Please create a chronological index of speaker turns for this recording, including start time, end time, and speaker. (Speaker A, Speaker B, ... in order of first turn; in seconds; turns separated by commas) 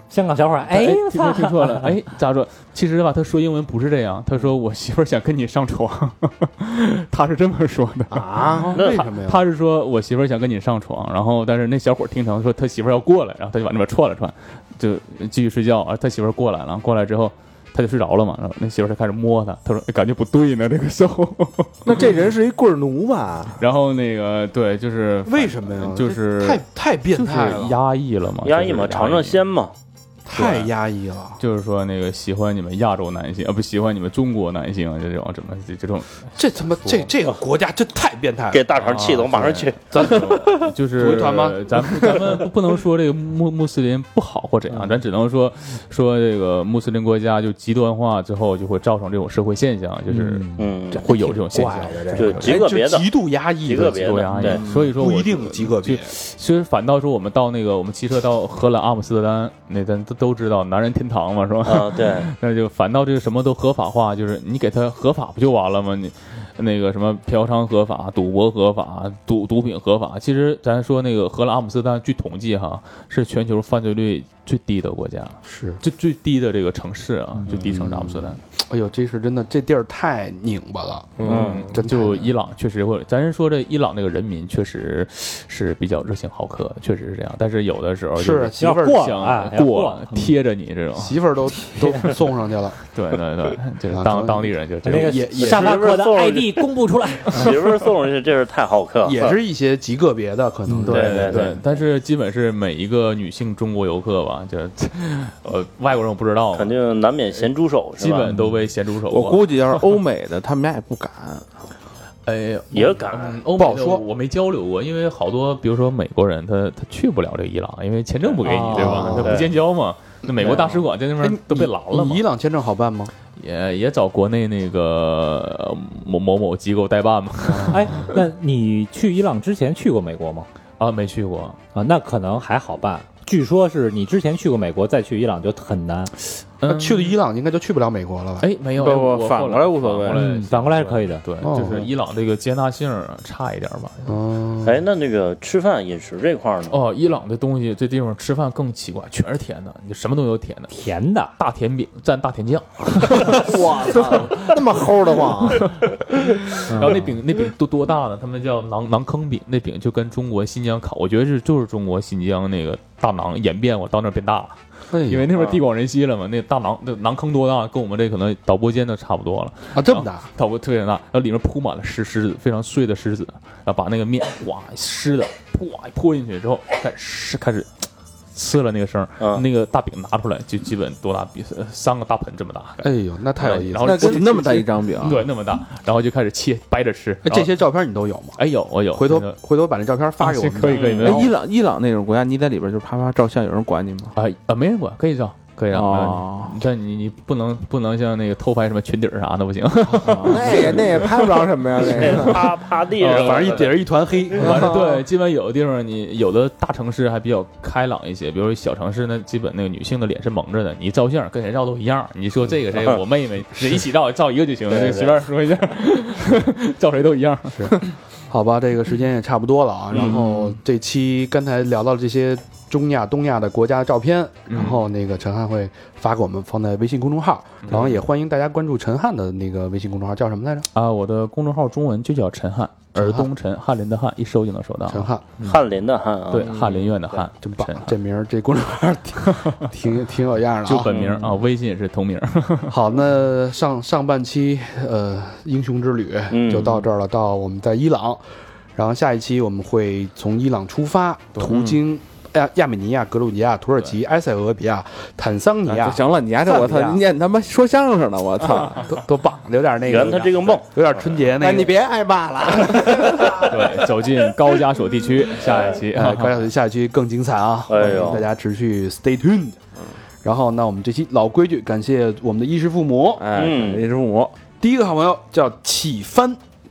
Speaker A: 0.1-1.9, Speaker B: 0.7-22.0, Speaker C: 8.1-8.7, Speaker D: 8.6-9.4, Speaker C: 21.9-23.6, Speaker B: 23.6-29.4, Speaker D: 25.3-27.8, Speaker E: 28.4-29.7, Speaker D: 30.3-31.4, Speaker B: 30.3-30.7, Speaker B: 31.4-37.1, Speaker D: 36.4-38.6, Speaker E: 38.5-40.2, Speaker B: 38.8-52.7, Speaker D: 39.4-42.3, Speaker A: 50.1-50.8, Speaker E: 50.6-51.0, Speaker C: 50.9-52.5, Speaker E: 52.2-53.1, Speaker D: 52.4-56.1, Speaker E: 53.6-54.6, Speaker B: 54.0-78.4, Speaker F: 54.4-54.7, Speaker E: 61.6-62.3, Speaker D: 75.5-75.8, Speaker D: 77.5-82.3, Speaker C: 81.2-81.6, Speaker B: 81.2-91.2, Speaker E: 81.3-81.7, Speaker D: 88.2-89.0, Speaker A: 88.6-90.4, Speaker D: 91.0-92.8, Speaker A: 91.7-92.1, Speaker B: 92.9-95.2, Speaker D: 93.9-95.8, Speaker A: 94.8-97.6, Speaker E: 95.3-96.7, Speaker E: 97.3-99.2, Speaker D: 99.0-101.5, Speaker A: 100.7-101.5, Speaker B: 100.8-106.8, Speaker E: 100.9-101.5, Speaker E: 106.5-108.3, Speaker B: 108.0-109.8, Speaker A: 108.3-108.6, Speaker F: 109.1-111.5, Speaker B: 112.3-122.2, Speaker E: 112.7-113.4, Speaker D: 113.6-114.0, Speaker A: 118.4-119.4, Speaker D: 118.8-119.1, Speaker E: 119.2-119.5, Speaker D: 120.3-123.1, Speaker B: 123.4-128.2, Speaker D: 127.5-128.0, Speaker A: 127.7-130.5, Speaker B: 130.8-131.6, Speaker A: 131.8-136.1, Speaker B: 136.6-137.2, Speaker D: 136.7-138.5, Speaker B: 138.4-144.1, Speaker F: 138.8-140.2, Speaker A: 140.1-141.2, Speaker D: 141.4-141.9, Speaker D: 144.1-144.8, Speaker E: 144.6-146.8, Speaker B: 146.7-150.7, Speaker A: 150.7-151.3, Speaker B: 151.4-154.5, Speaker C: 153.3-155.7, Speaker B: 156.4-177.7, Speaker A: 156.7-157.1, Speaker D: 164.9-165.3, Speaker D: 169.7-170.3, Speaker B: 178.3-187.5, Speaker D: 182.8-184.5, Speaker F: 183.8-185.2, Speaker D: 187.2-188.4, Speaker B: 188.4-189.4, Speaker D: 188.9-191.3, Speaker B: 190.2-191.3, Speaker F: 190.7-194.1, Speaker B: 194.2-201.3, Speaker F: 195.7-196.6, Speaker F: 200.0-200.6, Speaker C: 200.2-202.5, Speaker E: 201.9-203.8, Speaker B: 201.9-202.4, Speaker B: 202.9-203.8, Speaker D: 203.0-204.8, Speaker B: 204.3-217.9, Speaker C: 204.4-205.0, Speaker E: 214.7-215.0, Speaker D: 217.6-230.7, Speaker F: 219.9-220.6, Speaker B: 224.5-224.8, Speaker B: 227.7-228.0, Speaker B: 230.7-235.6, Speaker D: 233.0-233.3, Speaker D: 234.9-235.2, Speaker E: 235.4-236.6, Speaker B: 236.3-237.9, Speaker D: 237.4-240.9, Speaker B: 239.3-239.7, Speaker B: 240.7-242.8, Speaker D: 242.7-248.2, Speaker E: 246.3-246.7, Speaker D: 248.8-257.0, Speaker F: 251.4-251.8, Speaker F: 255.7-258.9, Speaker C: 256.4-257.0, Speaker D: 258.9-261.7, Speaker E: 259.9-261.1, Speaker C: 261.4-263.8, Speaker B: 263.3-266.4, Speaker D: 265.9-269.6, Speaker E: 267.7-268.3, Speaker F: 267.8-268.2, Speaker D: 270.2-273.3, Speaker F: 273.2-274.3, Speaker E: 273.3-273.9, Speaker D: 274.6-276.4